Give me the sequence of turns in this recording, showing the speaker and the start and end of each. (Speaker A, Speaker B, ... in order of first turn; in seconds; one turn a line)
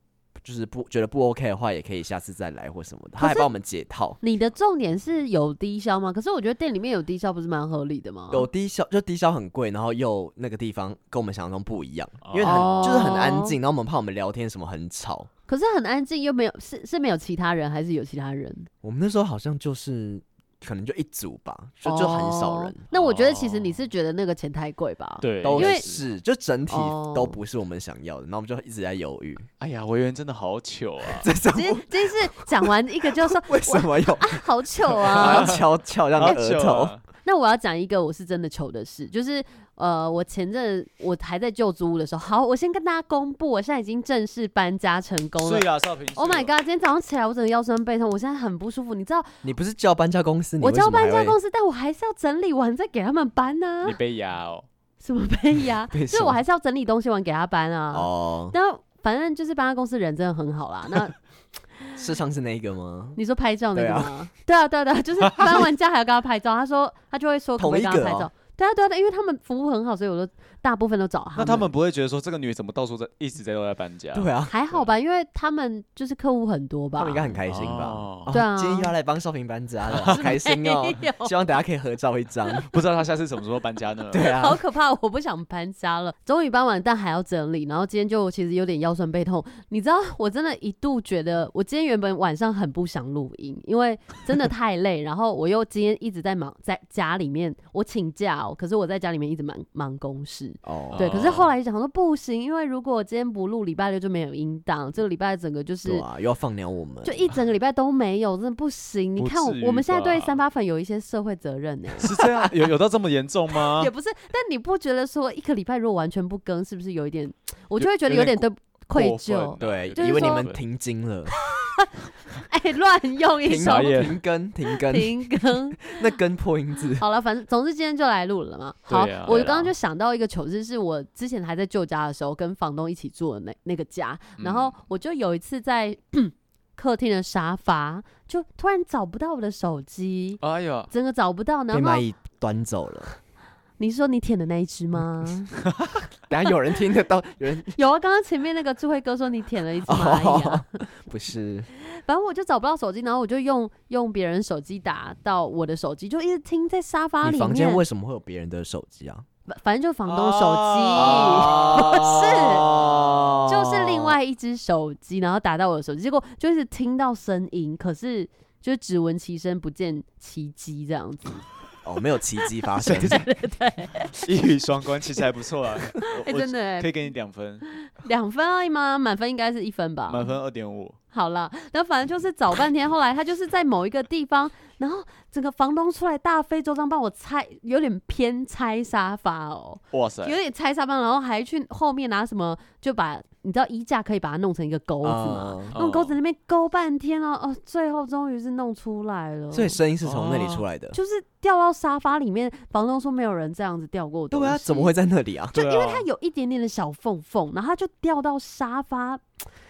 Speaker A: 0.4-4.2
Speaker B: 3.2-3.5
Speaker B: 4.2-8.5
Speaker A: 8.3-15.3
Speaker C: 12.2-13.2
Speaker B: 12.4-13.6
Speaker B: 15.5-18.7
Speaker A: 18.8-22.8
Speaker B: 21.9-25.9
Speaker C: 22.9-23.8
Speaker C: 25.2-26.0
Speaker A: 25.4-29.5
Speaker B: 26.7-27.4
Speaker C: 29.6-31.3
Speaker A: 31.2-34.4
Speaker B: 31.5-35.5
Speaker A: 35.0-37.0
Speaker C: 35.2-35.6
Speaker C: 36.2-37.0
Speaker B: 37.2-49.4
Speaker C: 45.4-46.5
Speaker A: 49.4-51.4
Speaker B: 50.6-54.0
Speaker C: 53.8-54.7
Speaker B: 55.0-61.2
Speaker A: 55.9-56.4
Speaker A: 57.9-58.6
Speaker A: 62.0-63.2
Speaker B: 63.2-71.7
Speaker A: 63.7-64.1
Speaker A: 67.6-68.3
Speaker C: 71.4-74.9
Speaker A: 74.1-74.5
Speaker B: 74.5-77.3
Speaker A: 77.0-82.7
Speaker C: 77.5-78.3
Speaker B: 78.3-78.9
Speaker C: 79.9-80.2
Speaker B: 80.1-81.3
Speaker C: 82.7-84.3
Speaker A: 84.1-84.6
Speaker B: 84.2-106.0
Speaker A: 100.6-101.1
Speaker C: 100.9-101.5
Speaker A: 105.8-107.3
Speaker B: 107.0-112.1
Speaker C: 109.2-110.4
Speaker C: 112.0-113.9
Speaker B: 113.6-120.5
Speaker C: 117.8-120.6
Speaker A: 119.6-121.3
Speaker B: 121.4-124.1
Speaker A: 123.4-127.0
Speaker C: 123.6-124.2
Speaker B: 124.7-126.1
Speaker B: 127.0-142.0
Speaker C: 128.9-129.7
Speaker C: 134.4-134.8
Speaker C: 140.4-140.9
Speaker A: 141.7-143.1
Speaker B: 143.8-145.5
Speaker A: 146.3-147.8
Speaker B: 147.8-150.7
Speaker A: 149.9-151.7
Speaker B: 151.7-157.8
Speaker A: 157.2-159.3
Speaker B: 159.5-162.7
Speaker C: 160.1-163.3
Speaker A: 160.9-164.2
Speaker B: 163.5-171.4
Speaker A: 171.8-173.3
Speaker B: 172.8-174.1
Speaker C: 172.8-173.2
Speaker C: 174.1-177.7
Speaker B: 176.1-176.9
Speaker B: 177.8-180.3
Speaker C: 180.1-181.0
Speaker B: 181.1-199.8
Speaker C: 189.9-190.4
Speaker A: 195.0-195.7
Speaker C: 195.7-196.2
Speaker A: 199.5-201.0
Speaker C: 200.0-200.7
Speaker B: 200.9-204.9
Speaker A: 204.3-205.6
Speaker C: 205.6-206.1
Speaker B: 205.6-209.2